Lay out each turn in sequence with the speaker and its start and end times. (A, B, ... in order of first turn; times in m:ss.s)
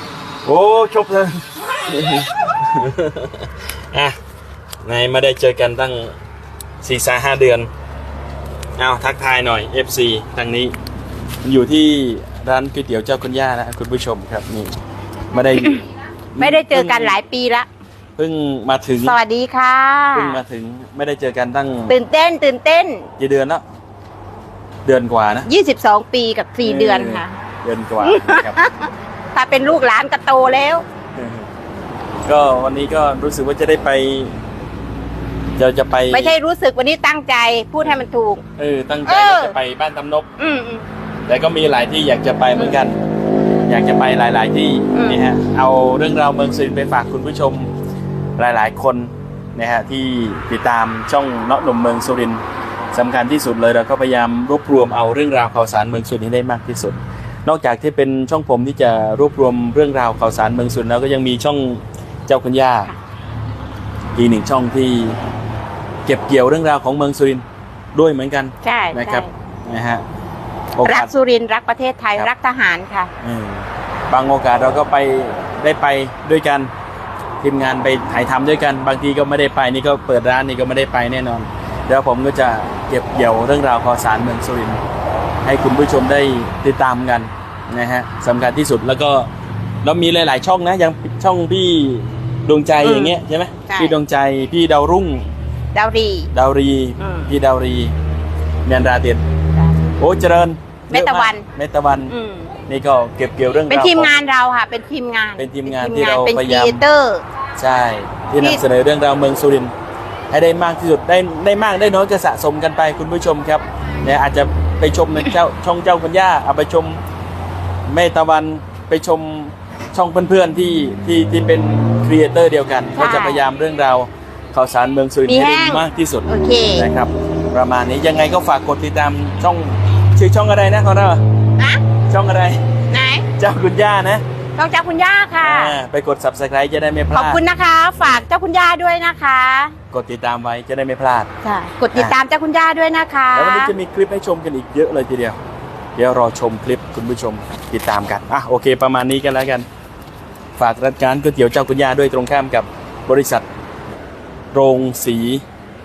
0:00.4-0:04.2 A
0:04.8-0:06.1 A
0:06.8-0:07.7 A
0:08.8-0:10.7 A
0:11.4-0:14.8 A
0:15.3-0:15.8 A
0:16.4-0:17.2 A
0:16.4-0:17.7 B
0:18.2-0:19.2 A
0:19.0-0:20.4 B
0:20.1-0:21.9 A
0:21.9-0:23.1 B
0:23.2-0:23.6 A
0:24.8-0:25.5 A
0:25.4-0:27.4 B
0:26.6-0:28.6 A
0:28.0-0:30.8 B
0:31.2-0:31.5 A
0:32.2-0:34.3 A
0:35.6-0:36.3 A
0:36.1-0:38.4 B
0:38.6-0:40.3 A
0:39.0-0:39.5 B
0:40.4-0:40.8 B
0:41.3-0:43.0 A
0:43.7-0:47.7 A
0:44.9-0:45.2 B
0:48.4-0:52.4 A
0:52.9-1:02.9 A
1:04.2-1:05.2 A
1:06.0-1:10.0 A
1:08.6-1:09.3 B
1:10.8-1:11.1 A
1:10.8-1:13.1 B
1:13.2-1:16.7 A
1:17.4-1:24.8 A
1:25.4-1:29.3 A
1:29.8-1:35.3 A
1:32.8-1:33.2 B
1:33.7-1:34.0 B
1:35.7-1:36.3 B
1:36.3-1:37.9 A
1:37.0-1:37.3 B
1:38.6-1:39.2 A
1:40.0-1:42.1 A
1:40.9-1:41.4 B
1:42.1-1:42.5 B
1:42.7-1:44.2 A
1:43.7-1:47.2 B
1:45.4-1:46.8 A
1:47.6-1:49.7 A
1:50.3-1:57.0 A
1:57.9-2:11.2 A
2:03.0-2:03.4 B
2:05.2-2:06.9 B
2:12.1-2:12.6 A
2:12.9-2:13.2 B
2:13.3-2:14.2 A
2:14.6-2:15.8 B
2:15.4-2:17.4 A
2:17.1-2:19.7 B
2:18.0-2:18.2 A
2:19.9-2:21.3 A
2:21.4-2:23.7 B
2:23.3-2:25.4 A
2:26.0-2:29.6 A
2:30.6-2:33.4 A
2:34.5-2:35.4 A